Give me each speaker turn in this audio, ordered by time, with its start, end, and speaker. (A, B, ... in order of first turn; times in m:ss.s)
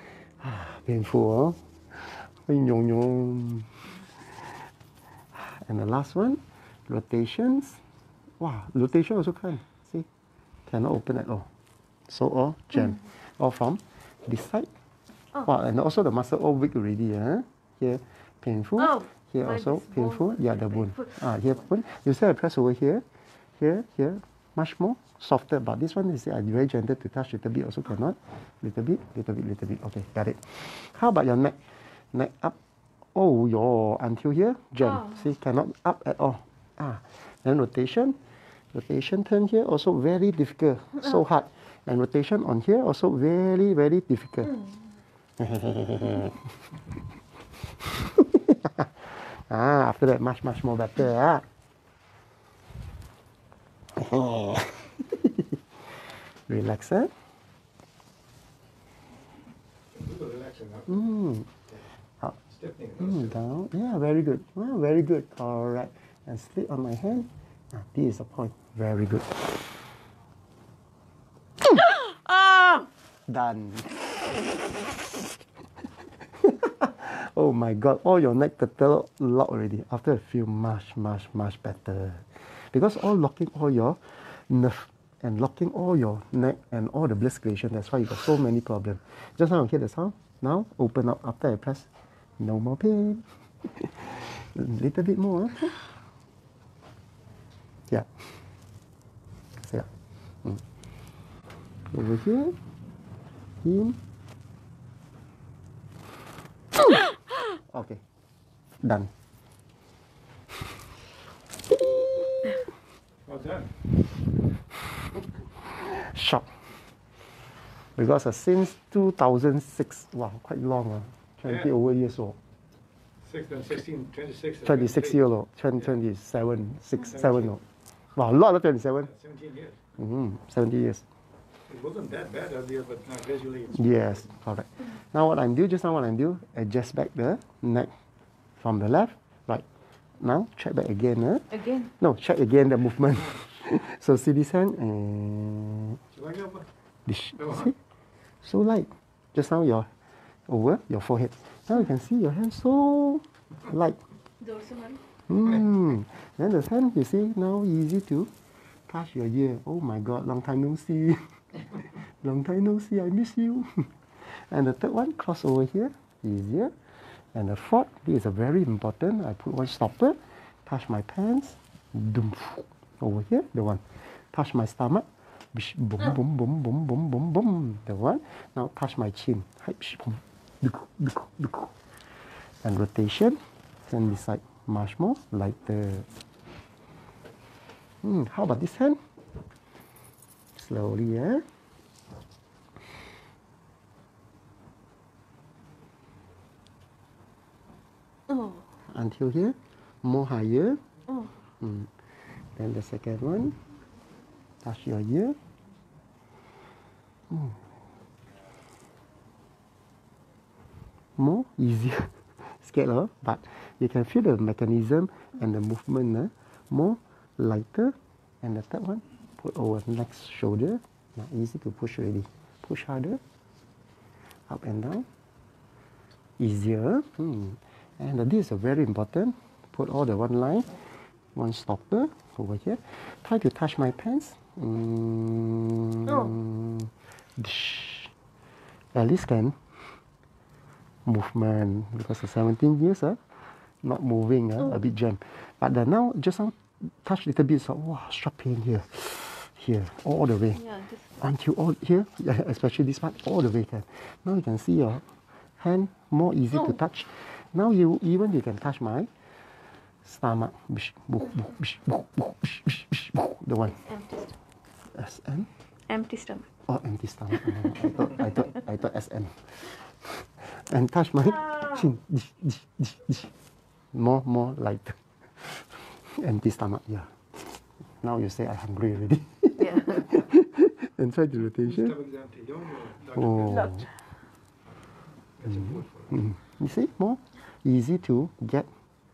0:00.4-0:04.0 A
0:05.4-0:07.8 A
0:08.4-0:10.1 A
0:10.7-0:11.5 A
0:12.1-0:14.7 A
0:15.4-0:23.0 A
0:18.8-0:21.1 B
0:23.6-0:31.6 A
0:32.1-0:32.6 A
0:33.2-0:38.2 A
0:38.7-0:44.6 A
0:45.4-0:46.5 A
0:48.0-0:51.4 A
0:54.0-0:55.6 A
0:56.5-0:57.1 A
1:00.0-1:00.9 C
1:00.9-1:01.5 A
1:02.2-1:09.6 A
1:02.6-1:03.0 C
1:11.8-1:12.9 B
1:13.3-1:14.8 A
1:16.2-1:31.9 A
1:32.4-1:35.8 A
1:39.6-1:39.9 A
1:41.9-1:42.6 A
1:43.6-1:44.0 A
1:47.7-1:48.0 A
1:48.8-1:49.1 A
1:51.6-1:52.6 A
1:53.3-1:53.7 C
1:55.6-1:56.5 A
1:58.0-2:02.4 A
2:03.2-2:05.0 C
2:04.6-2:07.6 A
2:08.2-2:09.2 A
2:09.2-2:09.8 C
2:10.0-2:11.0 A
2:11.7-2:13.8 C
2:13.7-2:17.9 A
2:18.6-2:19.7 A
2:20.2-2:26.0 A
2:21.6-2:21.9 B
2:26.2-2:26.6 C
2:27.1-2:27.8 A
2:28.4-2:29.9 A
2:30.5-2:34.0 A
2:34.4-2:35.0 B
2:35.3-2:38.3 A
2:38.9-2:46.7 A
2:47.3-3:01.7 A
3:02.6-3:06.1 A
3:08.0-3:09.0 A
3:10.6-3:11.4 A
3:18.3-3:18.6 B
3:18.9-3:20.8 A
3:21.6-3:21.9 A
3:22.6-3:23.6 A
3:24.6-3:25.4 A
3:27.3-3:27.6 A
3:31.2-3:43.2 A
3:44.5-3:45.1 A
3:46.4-3:50.7 A
3:51.4-3:58.1 A
3:58.9-3:59.6 A
4:01.0-4:03.2 A
4:03.8-4:15.0 A
4:10.6-4:11.0 B
4:15.6-4:19.1 A
4:20.0-4:23.9 A
4:23.9-4:24.4 B
4:24.9-4:25.5 A
4:25.9-4:26.5 B
4:26.7-4:33.3 A
4:33.9-4:37.1 A
4:38.0-4:42.0 A
4:41.6-4:43.4 C
4:42.9-4:43.9 A
4:45.4-4:48.7 A
4:45.5-4:45.8 C